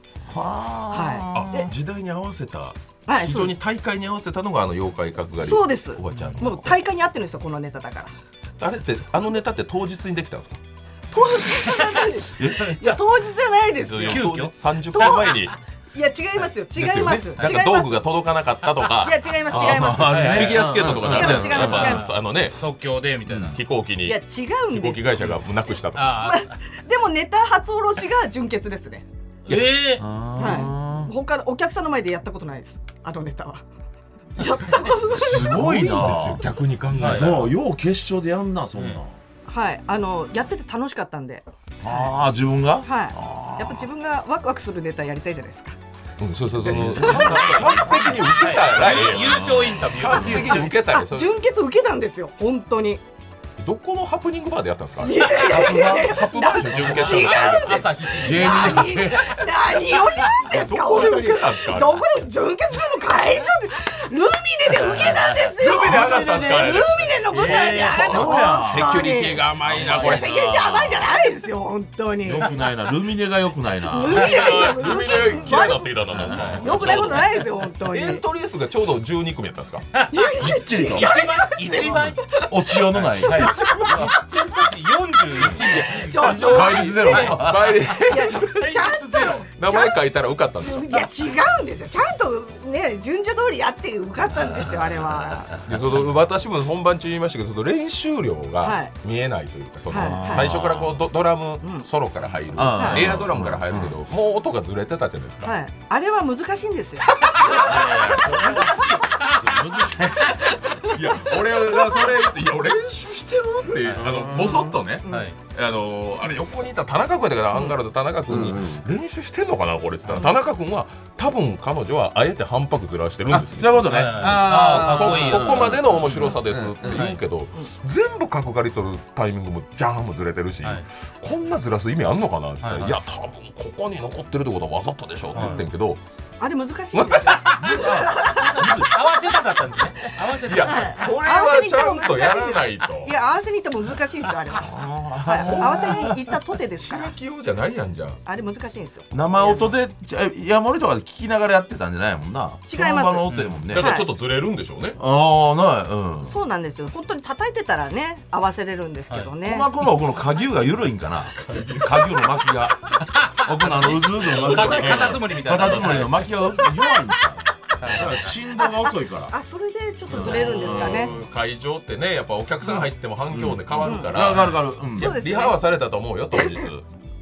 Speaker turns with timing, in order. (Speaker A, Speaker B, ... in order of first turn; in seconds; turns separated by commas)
Speaker A: 0.3-1.6, Speaker B: 0.9-1.7, Speaker C: 1.3-6.8, Speaker B: 3.1-3.6, Speaker B: 5.4-8.1, Speaker A: 6.1-6.4, Speaker C: 8.6-10.6, Speaker B: 11.1-14.3, Speaker D: 11.5-13.0, Speaker A: 12.4-12.7, Speaker C: 13.8-15.5, Speaker D: 14.0-15.5, Speaker B: 14.9-18.0, Speaker C: 16.7-22.6, Speaker D: 17.4-17.6, Speaker B: 19.0-22.1, Speaker A: 19.5-22.0, Speaker D: 20.1-20.6, Speaker D: 21.6-23.6, Speaker A: 23.3-23.6, Speaker C: 23.5-26.2, Speaker B: 24.0-25.2, Speaker D: 25.9-26.5, Speaker B: 26.1-29.1, Speaker D: 29.5-30.0, Speaker C: 29.5-29.9, Speaker A: 29.9-31.1, Speaker B: 30.4-33.6, Speaker B: 34.4-36.1, Speaker A: 35.1-39.2, Speaker C: 35.2-37.5, Speaker D: 36.9-37.3, Speaker B: 39.5-41.5, Speaker A: 41.8-43.9, Speaker B: 42.8-45.8, Speaker C: 46.2-51.4, Speaker A: 46.6-48.2, Speaker D: 48.2-50.7, Speaker A: 48.8-50.7, Speaker B: 50.9-53.0, Speaker C: 53.6-57.9, Speaker B: 55.0-72.5, Speaker A: 55.5-57.1, Speaker D: 56.7-60.4, Speaker A: 58.2-59.4, Speaker C: 60.5-62.0, Speaker A: 64.8-69.1, Speaker C: 65.6-70.3, Speaker D: 67.4-67.9, Speaker A: 69.6-71.2, Speaker A: 72.2-74.4, Speaker B: 73.9-76.0, Speaker C: 74.1-79.9, Speaker D: 74.3-74.7, Speaker A: 75.0-75.5, Speaker A: 76.1-77.1, Speaker D: 76.3-76.6, Speaker B: 76.5-78.2, Speaker D: 80.0-80.3, Speaker B: 80.1-82.7, Speaker A: 80.4-81.2, Speaker D: 80.9-82.2, Speaker A: 81.8-84.1, Speaker D: 83.2-86.4, Speaker B: 83.3-84.0, Speaker C: 83.4-84.1, Speaker A: 85.4-88.0, Speaker C: 85.5-88.5, Speaker B: 85.8-87.2, Speaker D: 87.1-87.4, Speaker B: 87.9-90.0, Speaker D: 88.4-89.5, Speaker C: 89.5-91.1, Speaker B: 90.6-95.5, Speaker A: 94.3-96.0, Speaker C: 95.7-105.5, Speaker B: 98.6-98.9, Speaker B: 99.9-100.5, Speaker A: 99.9-101.0, Speaker B: 101.6-101.9, Speaker A: 102.5-104.0, Speaker B: 102.8-103.1, Speaker B: 105.4-109.0, Speaker A: 107.5-110.6, Speaker D: 108.7-109.3, Speaker C: 110.9-136.0, Speaker A: 113.9-114.8, Speaker D: 115.1-115.4, Speaker A: 118.3-118.8, Speaker A: 123.3-127.1, Speaker D: 123.8-126.3, Speaker D: 126.8-127.2, Speaker D: 132.6-133.0, Speaker A: 135.3-135.6, Speaker D: 135.3-135.6, Speaker B: 136.4-138.8, Speaker C: 136.9-137.8, Speaker A: 137.6-139.0, Speaker D: 138.8-141.0, Speaker C: 140.4-143.1, Speaker B: 140.6-147.2, Speaker A: 144.5-146.2, Speaker C: 145.4-146.1, Speaker C: 146.8-148.2, Speaker B: 148.3-149.7, Speaker A: 149.1-154.0, Speaker B: 152.7-154.1, Speaker D: 153.3-153.6, Speaker C: 153.7-155.0, Speaker A: 155.0-156.4, Speaker B: 156.3-159.7, Speaker A: 159.4-162.8, Speaker C: 161.5-161.9, Speaker D: 163.1-166.4, Speaker A: 163.4-169.3, Speaker C: 164.2-166.0, Speaker D: 167.8-168.3, Speaker B: 168.6-171.1, Speaker A: 170.1-171.2, Speaker C: 170.1-176.8, Speaker A: 173.3-175.2, Speaker B: 173.8-174.2, Speaker B: 175.0-175.7, Speaker B: 176.3-176.7